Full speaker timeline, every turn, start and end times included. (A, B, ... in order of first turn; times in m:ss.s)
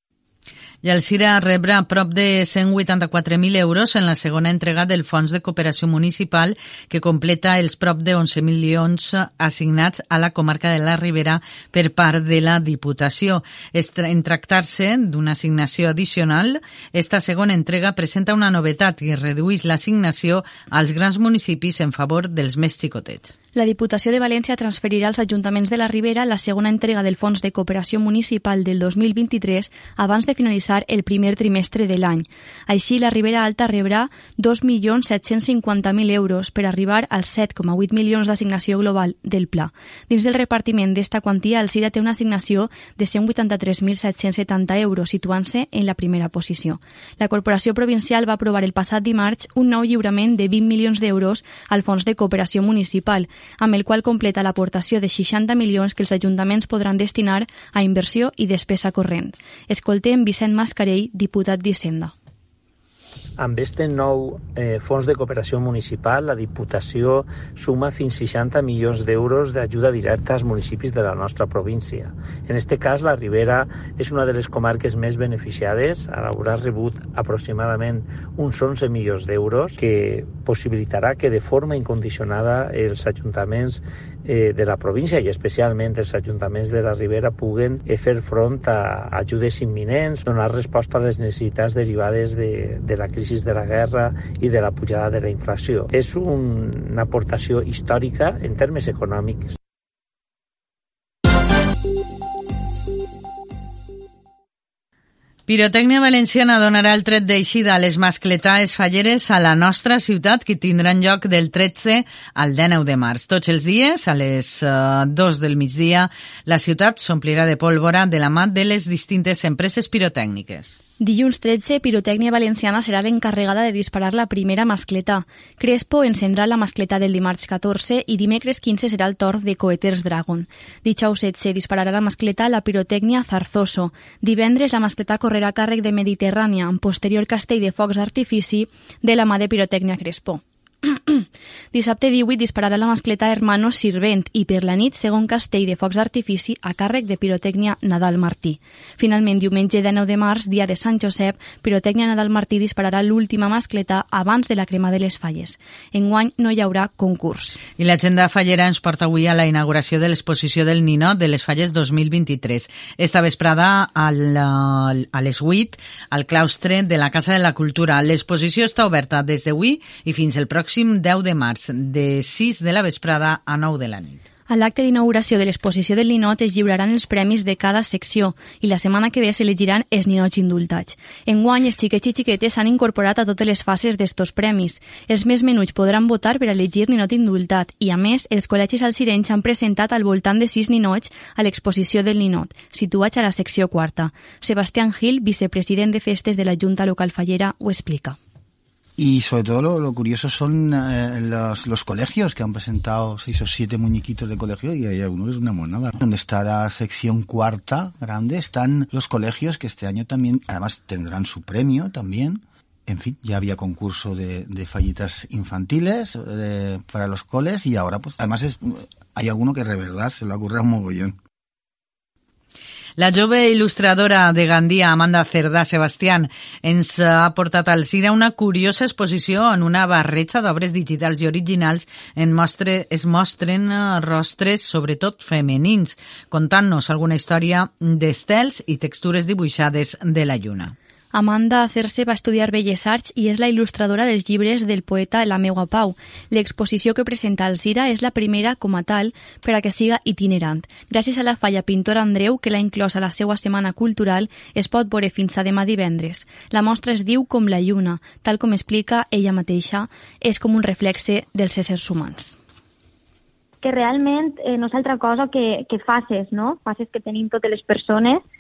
0:00.8-0:23.3 A
0:23.5-1:02.1 B
1:03.4-1:39.6 C
1:45.5-2:00.8 A
2:01.0-2:37.6 B
2:37.8-2:54.2 A
2:54.5-3:18.2 B
3:19.0-3:41.2 D
3:43.0-4:00.8 A
4:01.1-4:22.4 B
4:23.6-4:28.2 E